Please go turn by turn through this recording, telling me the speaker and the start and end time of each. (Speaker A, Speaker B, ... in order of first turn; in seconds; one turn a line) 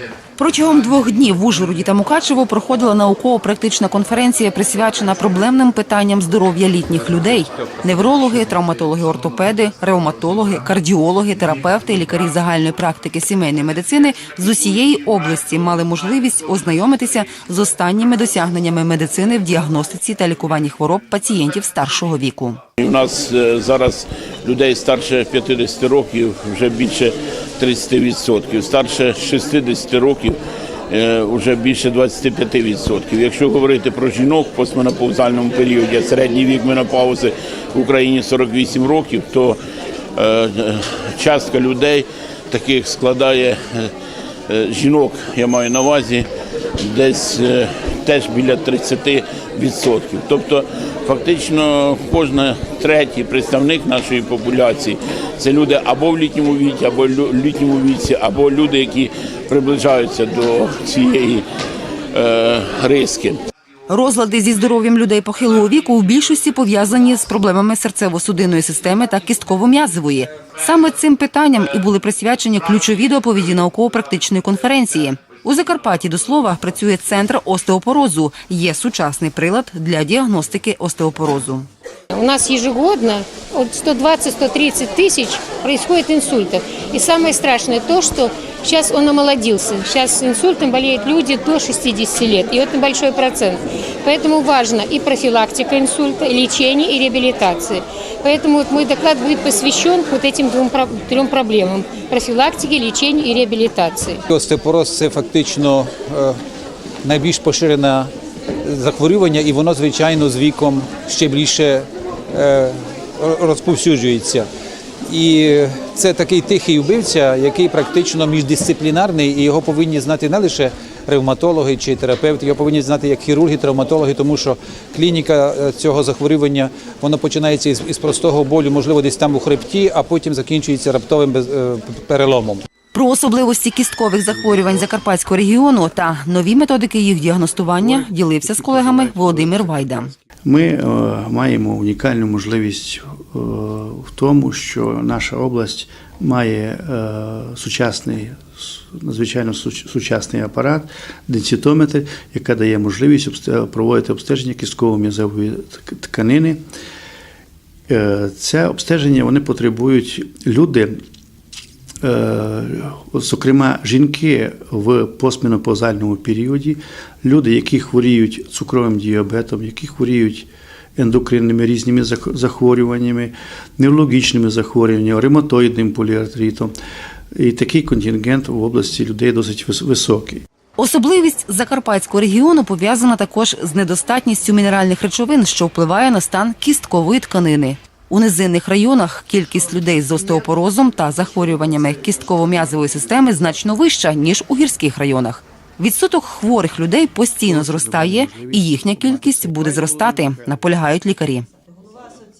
Speaker A: 0.4-22.6
Speaker B: 22.8-30.4
Speaker B: 30.9-39.6
Speaker B: 40.1-43.9
Speaker B: 44.5-46.2
Speaker B: 46.8-61.4
Speaker B: 62.1-63.4
Speaker A: 63.9-81.7
Speaker C: 82.1-104.2
Speaker D: 104.3-106.3
Speaker D: 107.0-108.1
Speaker D: 108.6-114.5
Speaker D: 115.1-132.6
Speaker A: 132.9-140.1
Speaker E: 137.8-156.6
Speaker E: 157.9-160.9
Speaker E: 162.0-176.7
Speaker E: 177.3-180.4
Speaker A: 180.8-201.5
Speaker E: 197.4-200.6